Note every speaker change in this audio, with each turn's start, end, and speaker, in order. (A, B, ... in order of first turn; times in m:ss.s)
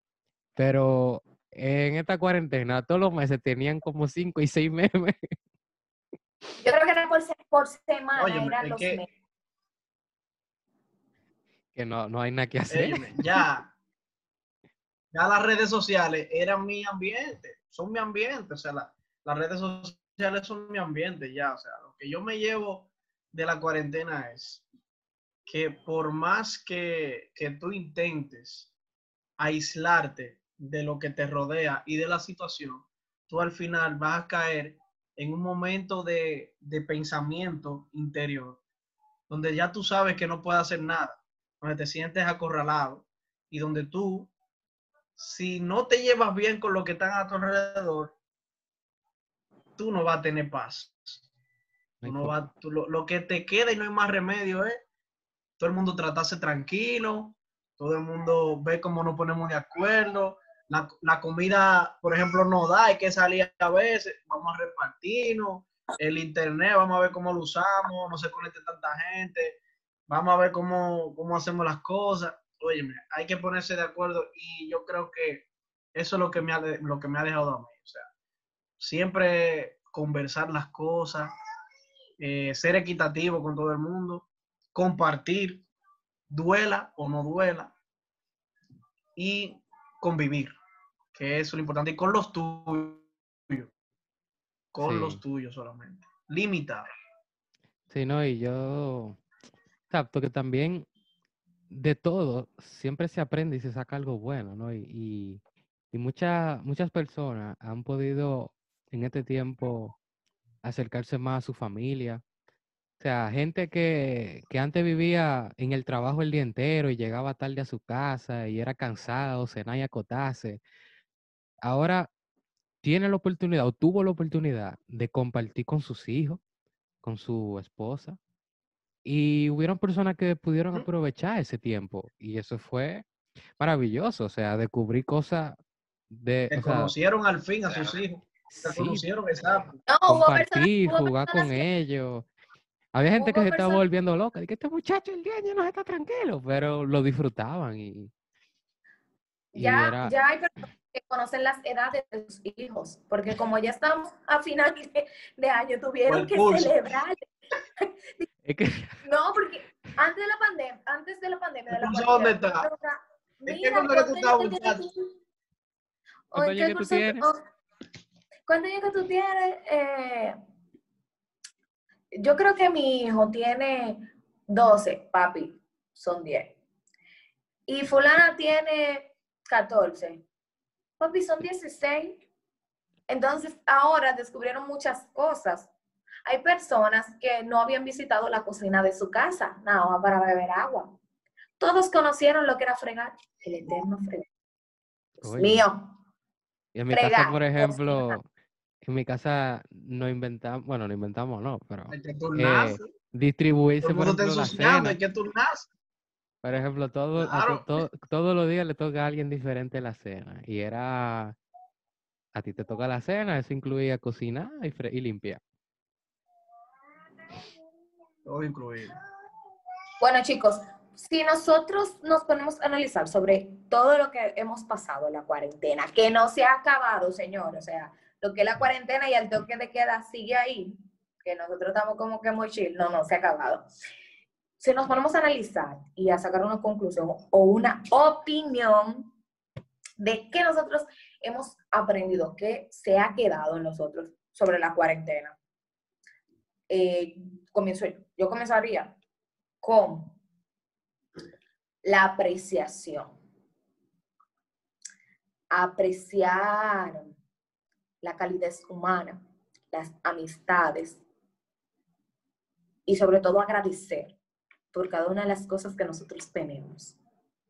0:00.6-0:05.3 A
0:06.6-0:09.1 B
0:08.2-0:09.0 C
0:11.7-0:13.4 A
0:12.7-0:13.7 C
0:15.1-0:24.6 C
0:25.5-0:28.7 C
0:29.4-0:38.6 C
0:39.3-0:44.3 C
0:45.2-0:48.1 C
0:49.8-0:51.2 C
0:52.0-0:52.4 A
0:52.0-0:54.8 C
0:55.6-1:18.1 C
1:18.8-1:21.3 C
1:22.2-1:25.6 C
1:26.3-1:27.7 C
1:29.2-1:30.6 C
1:31.1-1:33.7 C
1:34.7-1:36.9 C
1:34.8-1:35.2 A
1:37.9-1:39.2 A
1:39.9-1:40.9 A
1:41.7-1:50.0 A
1:50.6-1:52.2 A
1:53.0-2:00.6 A
2:01.6-2:02.1 A
2:02.8-2:06.4 A
2:07.0-2:08.2 A
2:09.0-2:13.1 A
2:13.6-2:15.6 A
2:16.1-2:16.9 A
2:16.5-2:19.7 C
2:18.5-2:19.0 A
2:19.9-2:21.7 B
2:20.1-2:22.3 A
2:22.9-2:28.1 A
2:23.2-2:23.8 B
2:29.5-2:37.3 B
2:29.6-2:30.1 A
2:36.1-2:36.8 C
2:38.5-2:39.0 A
2:39.0-2:45.1 B
2:41.7-2:42.7 C
2:43.5-2:44.8 C
2:46.3-2:47.4 B
2:46.4-2:47.3 A
2:48.5-2:50.4 B
2:52.2-2:56.6 B
2:57.7-3:00.2 B
3:01.0-3:02.2 B
3:03.1-3:05.7 B
3:06.3-3:11.0 B
3:11.6-3:14.3 B
3:15.2-3:15.7 A
3:15.2-3:15.9 B
3:16.8-3:18.2 A
3:16.9-3:18.2 B
3:18.8-3:25.0 A
3:21.9-3:22.9 C
3:23.8-3:25.7 C
3:26.4-3:31.4 A
3:27.2-3:27.7 C
3:32.3-3:35.4 A
3:38.3-3:39.0 C
3:40.0-3:53.7 B
3:54.6-3:59.1 B
4:00.0-4:05.4 B
4:06.7-4:09.0 B
4:09.6-4:10.2 B
4:11.8-4:13.1 B
4:15.5-4:17.1 B
4:18.0-4:21.0 B
4:22.9-4:24.2 B
4:24.7-4:27.0 B